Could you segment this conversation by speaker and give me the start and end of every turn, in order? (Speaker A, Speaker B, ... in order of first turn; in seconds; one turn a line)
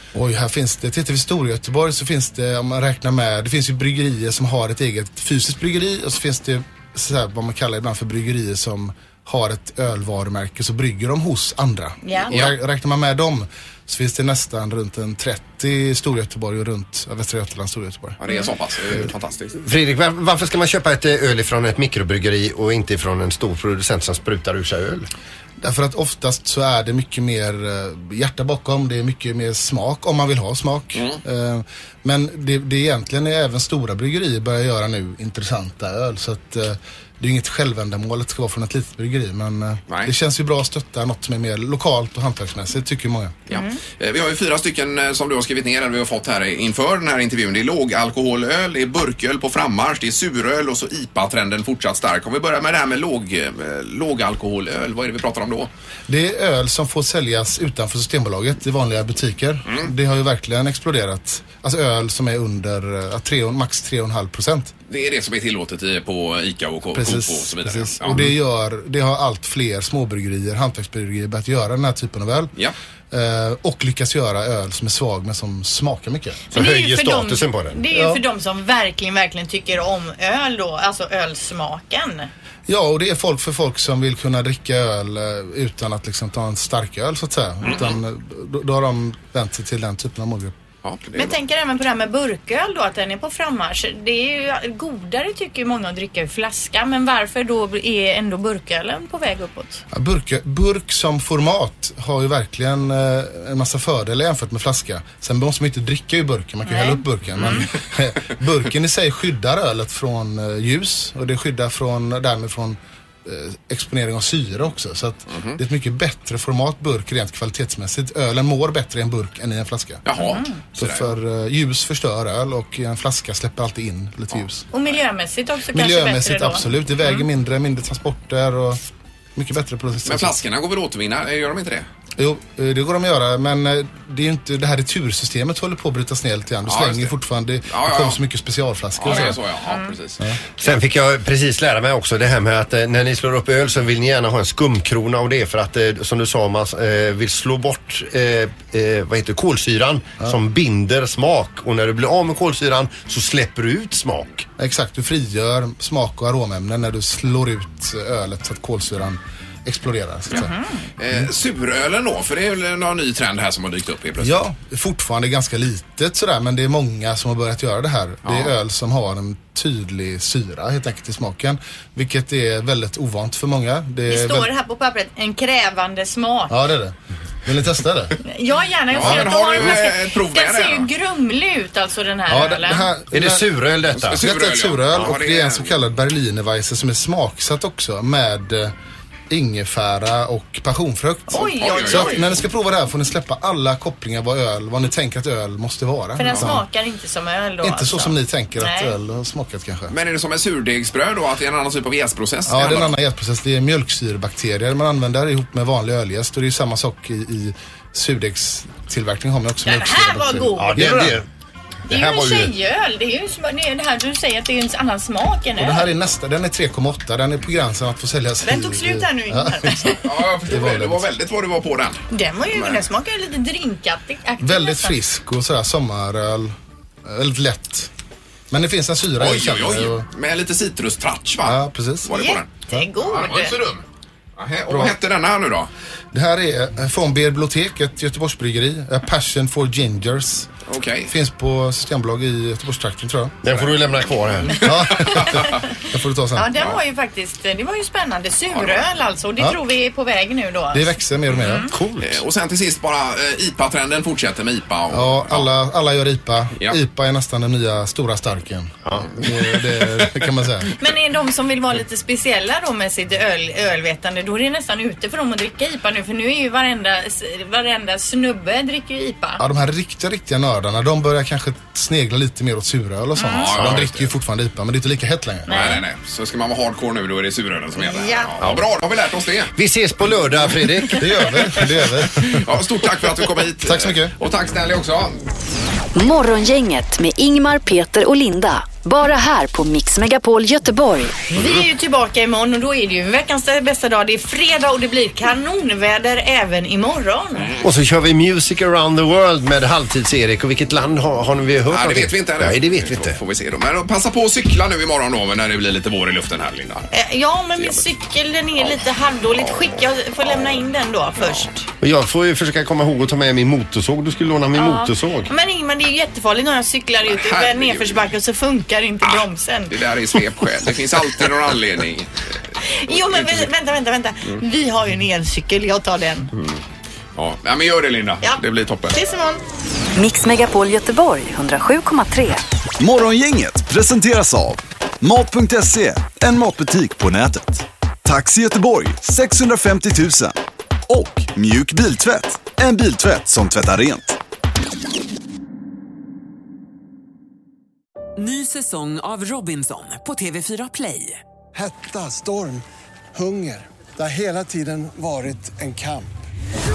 Speaker A: 0.1-18.2
Speaker B: 12.0-12.4
Speaker C: 12.3-12.5
Speaker C: 18.2-19.6
Speaker D: 19.6-25.1
Speaker A: 25.6-43.4
Speaker C: 30.9-31.2
Speaker C: 43.5-55.7
Speaker B: 43.5-43.8
Speaker A: 56.1-64.7
Speaker C: 64.9-68.3
Speaker A: 66.9-72.5
Speaker A: 73.1-76.4
Speaker D: 76.5-77.8
Speaker B: 76.5-82.3
Speaker A: 77.9-78.2
Speaker A: 82.7-90.5
Speaker C: 87.6-88.0
Speaker C: 90.8-91.4
Speaker B: 91.2-99.8
Speaker A: 99.9-120.0
Speaker B: 106.7-107.7
Speaker C: 115.3-115.6
Speaker C: 120.0-121.2
Speaker B: 120.2-120.6
Speaker A: 120.8-124.7
Speaker B: 124.7-127.3
Speaker A: 125.7-128.8
Speaker A: 129.4-130.4
Speaker C: 130.0-131.9
Speaker A: 132.2-139.5
Speaker C: 136.7-137.1
Speaker C: 137.7-138.2
Speaker C: 139.0-140.8
Speaker D: 140.6-154.5
Speaker A: 154.6-160.5
Speaker B: 160.3-160.8
Speaker C: 161.0-164.4
Speaker A: 164.2-174.5
Speaker C: 168.2-168.5
Speaker B: 174.1-176.6
Speaker A: 176.5-178.2
Speaker B: 178.2-182.9
Speaker C: 178.9-180.9
Speaker A: 179.0-179.3
Speaker A: 182.3-183.5
Speaker D: 183.1-184.2
Speaker C: 183.9-185.7
Speaker A: 184.2-188.7
Speaker A: 189.3-196.7
Speaker B: 191.3-192.3
Speaker C: 191.4-192.4
Speaker B: 196.2-198.9
Speaker C: 196.2-196.6
Speaker A: 197.6-199.9
Speaker C: 199.9-203.0
Speaker A: 202.5-211.2
Speaker B: 209.7-210.8
Speaker D: 210.6-211.2
Speaker B: 211.9-215.9
Speaker D: 211.9-212.5
Speaker A: 215.6-221.1
Speaker B: 218.4-220.1
Speaker C: 220.0-222.0
Speaker B: 222.1-225.0
Speaker C: 222.5-222.8
Speaker A: 224.4-226.6
Speaker A: 227.1-227.9
Speaker A: 228.5-230.1
Speaker C: 229.2-232.5
Speaker A: 231.4-232.1
Speaker B: 232.1-233.6
Speaker C: 233.1-233.8
Speaker C: 234.4-235.7
Speaker A: 234.7-234.9
Speaker A: 236.1-240.5
Speaker C: 240.7-241.1
Speaker A: 241.1-243.4
Speaker D: 243.4-244.6
Speaker A: 244.6-246.5
Speaker C: 244.6-245.6
Speaker B: 246.3-250.9
Speaker C: 248.5-248.8
Speaker A: 250.7-251.7
Speaker B: 251.4-251.7
Speaker D: 251.7-252.2
Speaker C: 252.0-255.5
Speaker A: 254.9-260.7
Speaker B: 260.8-269.4
Speaker A: 269.4-275.8
Speaker B: 273.2-273.6
Speaker C: 273.2-274.1
Speaker B: 275.5-275.8
Speaker C: 275.5-279.5
Speaker B: 277.8-278.3
Speaker D: 279.6-281.1
Speaker A: 281.0-282.5
Speaker C: 282.2-285.1
Speaker A: 283.6-284.1
Speaker E: 285.9-291.1
Speaker B: 291.3-297.5
Speaker D: 297.6-303.2
Speaker C: 301.7-306.9
Speaker B: 306.9-311.7
Speaker C: 307.6-307.8
Speaker C: 311.2-311.5
Speaker D: 311.8-315.3
Speaker B: 314.6-319.8
Speaker C: 317.1-318.0
Speaker C: 319.1-322.4
Speaker B: 322.6-326.3
Speaker C: 322.9-323.5
Speaker C: 326.3-326.6
Speaker C: 327.1-329.0
Speaker B: 328.2-329.4
Speaker E: 330.0-332.4
Speaker F: 332.8-340.4
Speaker F: 340.9-344.2
Speaker G: 348.2-351.2
Speaker H: 351.5-352.6
Speaker H: 353.1-356.1